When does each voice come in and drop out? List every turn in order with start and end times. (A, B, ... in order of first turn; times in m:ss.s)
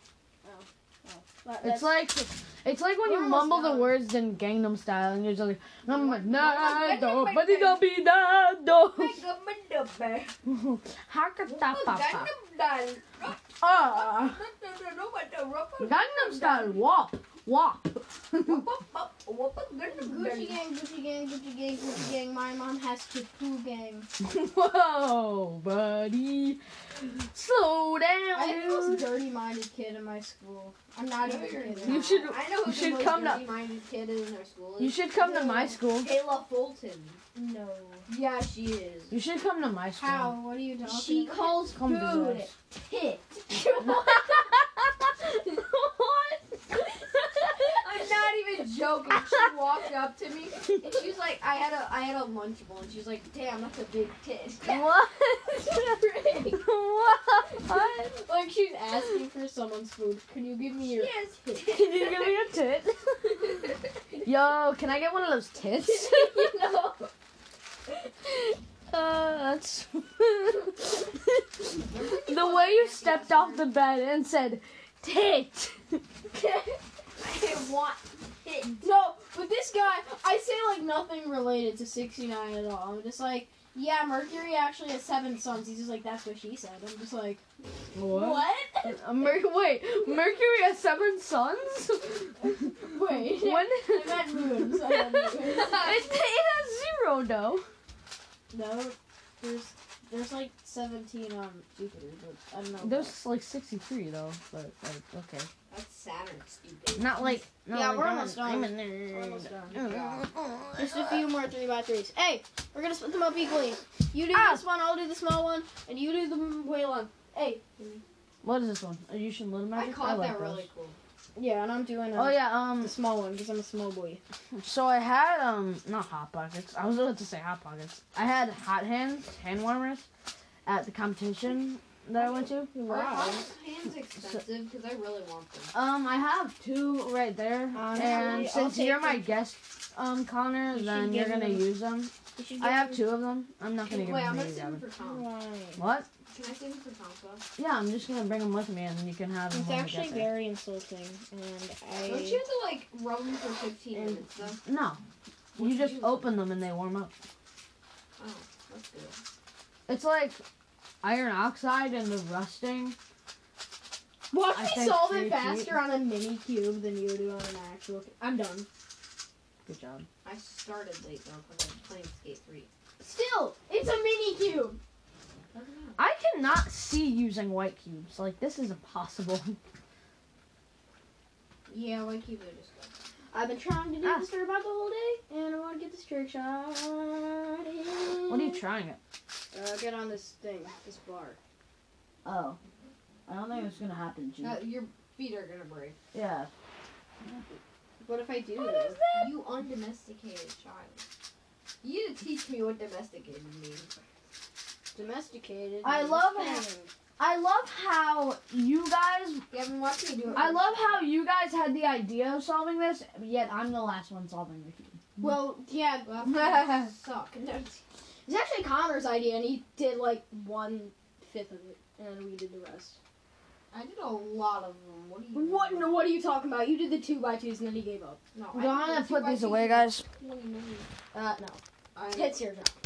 0:00.4-0:02.0 A
0:01.6-0:09.2 B
0:03.0-0:04.0 A
0:05.9-0:06.2 A
0:06.2-0:07.8 C
0:08.9-0:10.3 C
0:10.4-0:12.3 B
0:11.4-0:16.8 C
0:13.6-0:14.4 B
0:15.8-0:18.6 B
0:18.4-0:20.6 C
0:20.0-0:24.1 A
0:24.2-0:29.2 B
0:28.3-0:32.1 A
0:31.2-0:35.0 C
0:31.8-0:33.4 B
0:34.8-0:36.1 B
0:35.2-0:35.7 A
0:35.9-0:37.2 C
0:37.3-0:38.1 A
0:38.1-0:39.1 C
0:39.1-0:40.4 B
0:40.0-0:41.5 A
0:40.8-0:44.2 C
0:41.6-0:42.5 B
0:43.7-0:46.4 B
0:47.1-0:47.9 B
0:47.6-0:54.9 C
0:54.6-0:58.2 B
0:55.6-0:56.6 A
0:57.9-1:01.2 A
1:00.8-1:02.5 C
1:01.6-1:03.7 B
1:04.2-1:06.6 B
1:06.0-1:06.8 A
1:08.9-1:16.0 B
1:11.8-1:13.7 C
1:17.2-1:18.8 C
1:18.8-1:27.4 A
1:27.9-1:37.6 B
1:28.0-1:29.0 A
1:32.4-1:36.1 A
1:38.5-1:43.2 A
1:42.8-1:45.5 B
1:45.7-1:47.4 C
1:47.0-1:50.9 B
1:47.6-1:50.0 A
1:49.8-1:50.2 C
1:50.8-1:55.9 A
1:54.3-1:54.6 B
1:55.9-1:58.0 C
1:58.4-2:00.7 B
1:59.7-2:01.0 C
2:01.4-2:04.2 A
2:02.1-2:03.0 B
2:04.5-2:10.0 B
2:10.6-2:12.7 B
2:12.2-2:13.4 A
2:12.9-2:15.7 C
2:15.7-2:24.8 B
2:17.7-2:19.3 A
2:17.9-2:18.5 C
2:20.7-2:21.7 A
2:22.4-2:23.0 A
2:23.8-2:25.2 C
2:25.0-2:25.8 A
2:25.8-2:26.1 B
2:26.3-2:27.4 C
2:27.6-2:30.3 B
2:29.5-2:32.4 A
2:32.0-2:34.6 C
2:33.9-2:34.2 A
2:34.6-2:35.0 B
2:35.5-2:37.1 B
2:35.6-2:36.3 C
2:38.2-2:39.2 C
2:39.9-2:40.4 B
2:41.0-2:43.0 B
2:44.3-2:48.7 A
2:44.5-2:45.8 B
2:49.6-2:50.1 B
2:50.2-2:52.7 C
2:53.0-2:54.8 A
2:55.5-2:56.0 C
2:56.0-2:59.6 B
3:01.7-3:02.9 C
3:03.3-3:08.6 A
3:04.0-3:04.3 B
3:08.3-3:09.0 B
3:09.5-3:11.4 A
3:12.2-3:12.6 B
3:13.3-3:14.7 B
3:14.4-3:16.0 C
3:16.1-3:16.5 B
3:18.0-3:19.0 A
3:18.6-3:19.4 B
3:19.1-3:21.0 C
3:21.8-3:23.9 C
3:24.9-3:26.9 A
3:25.8-3:26.6 B
3:27.2-3:29.4 B
3:29.5-3:31.1 C
3:30.3-3:35.1 B
3:35.2-3:36.2 A
3:36.0-3:37.8 C
3:36.3-3:36.9 B
3:38.2-3:43.0 A
3:43.7-3:45.9 C
3:45.3-3:48.2 A
3:48.3-3:50.9 C
3:48.5-3:50.0 B
3:51.1-3:52.7 A
3:51.9-3:52.4 C